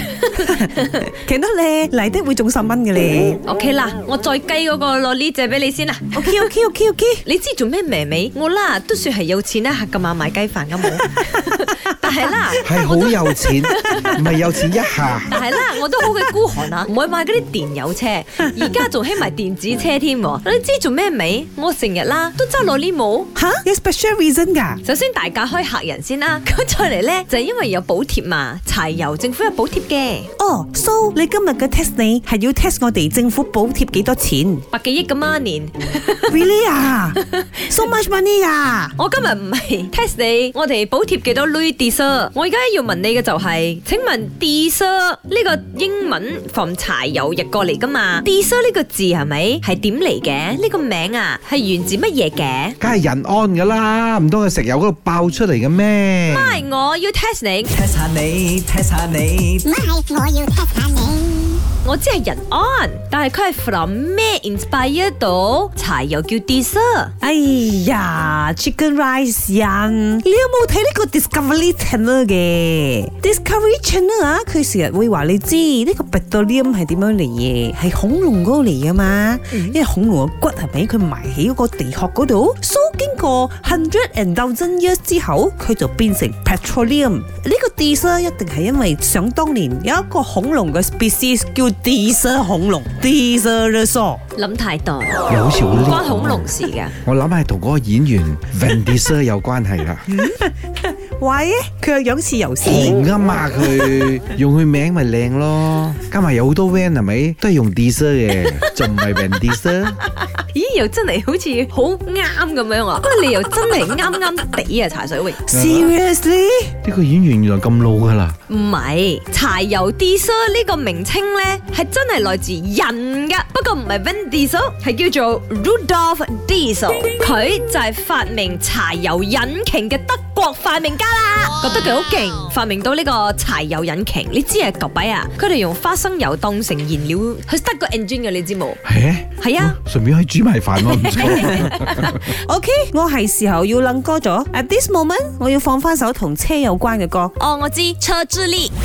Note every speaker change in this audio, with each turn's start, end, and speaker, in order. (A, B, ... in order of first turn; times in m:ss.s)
0:00.3-0:03.4 A
0:03.4-0:06.5 B
0:06.1-0:07.2 A
0:07.2-0:14.3 B
0:12.6-0:15.4 C
0:15.3-0:23.3 B
0:23.4-0:24.8 A
0:24.8-0:30.3 B
0:30.4-0:34.6 A
0:34.7-0:36.4 B
0:36.3-0:38.9 A
0:39.0-0:52.8 B
0:52.8-0:56.6 C
0:56.3-0:57.8 B
0:57.7-0:59.7 D
0:59.7-1:01.6 E
1:01.8-1:07.1 B
1:07.2-1:34.2 A
1:19.5-1:19.8 B
1:34.4-1:36.9 B
1:35.3-1:36.5 C
1:37.0-1:40.1 C
1:40.1-1:43.0 A
1:42.6-1:50.0 C
1:48.5-1:49.2 B
1:50.2-1:55.4 B
1:55.5-1:56.7 A
1:55.5-1:55.9 C
1:56.8-1:58.4 C
1:58.5-2:18.8 B
2:18.8-2:22.2 C
2:19.4-2:19.8 B
2:20.9-2:22.1 B
2:21.7-2:27.3 A
2:27.4-2:28.7 B